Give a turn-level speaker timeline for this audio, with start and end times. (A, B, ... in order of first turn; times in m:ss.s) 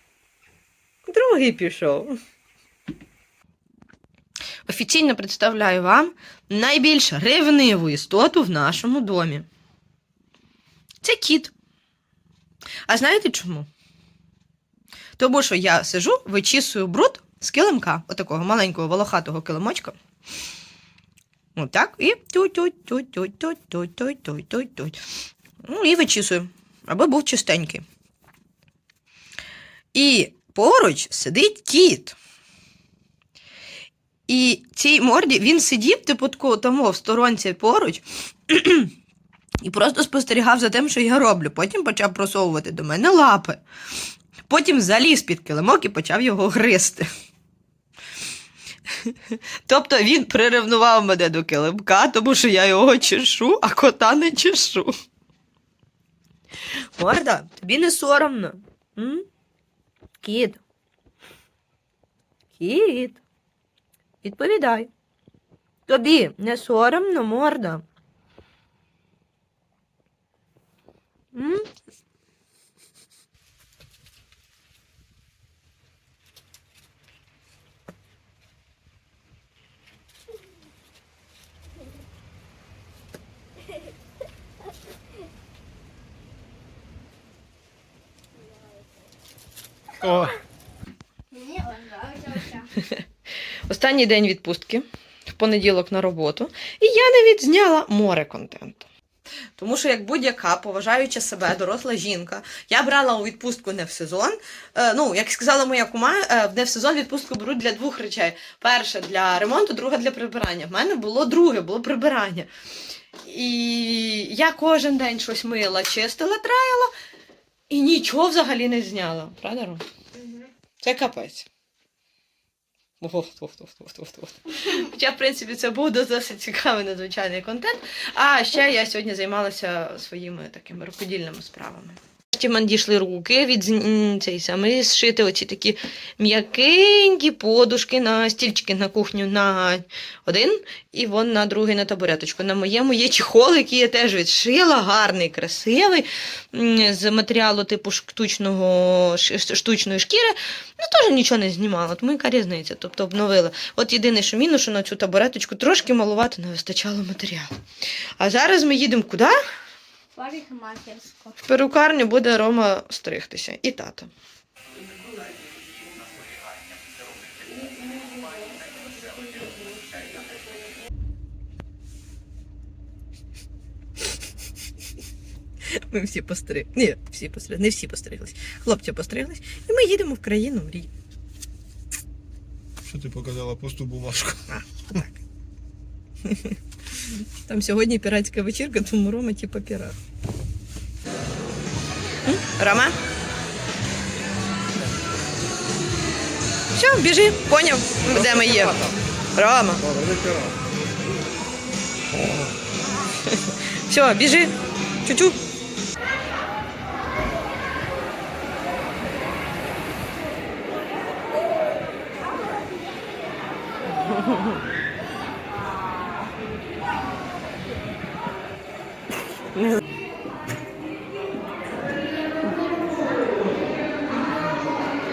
0:01.1-0:02.2 A
0:04.7-0:09.5 A
0:11.0-0:11.5 A
0:12.9-0:13.7 A
0:15.2-0:20.0 A
0:21.6-0:25.0 A
0:25.6-0:27.8 A
0:29.9-0:32.2 A
0:34.3-0:38.9 A
0:39.6-0:43.6 A
0:44.5-0:47.1 A
0:48.9-0:54.9 A
0:56.6-0:59.3 A
1:00.2-1:00.6 A
1:02.6-1:03.2 A
1:04.2-1:04.9 A
1:05.9-1:07.8 A
1:11.3-1:11.7 A
1:30.0-1:30.4 B
1:31.3-1:32.7 C
1:32.7-1:33.0 A
1:33.7-1:38.9 A
1:39.6-1:52.5 A
1:53.2-1:56.9 A
1:57.7-1:59.8 A
2:00.8-2:01.5 A
2:03.0-2:37.5 A
2:38.2-2:39.4 A
2:40.2-2:41.4 C
2:41.4-2:44.1 A
2:47.4-2:50.6 C
2:55.6-3:00.9 A
3:02.9-3:04.4 B
3:04.5-3:05.2 A
3:06.2-3:10.0 A
3:12.2-3:13.0 A
3:16.7-3:19.9 A
3:20.1-3:20.4 B
3:23.2-3:24.5 A
3:25.0-3:25.4 A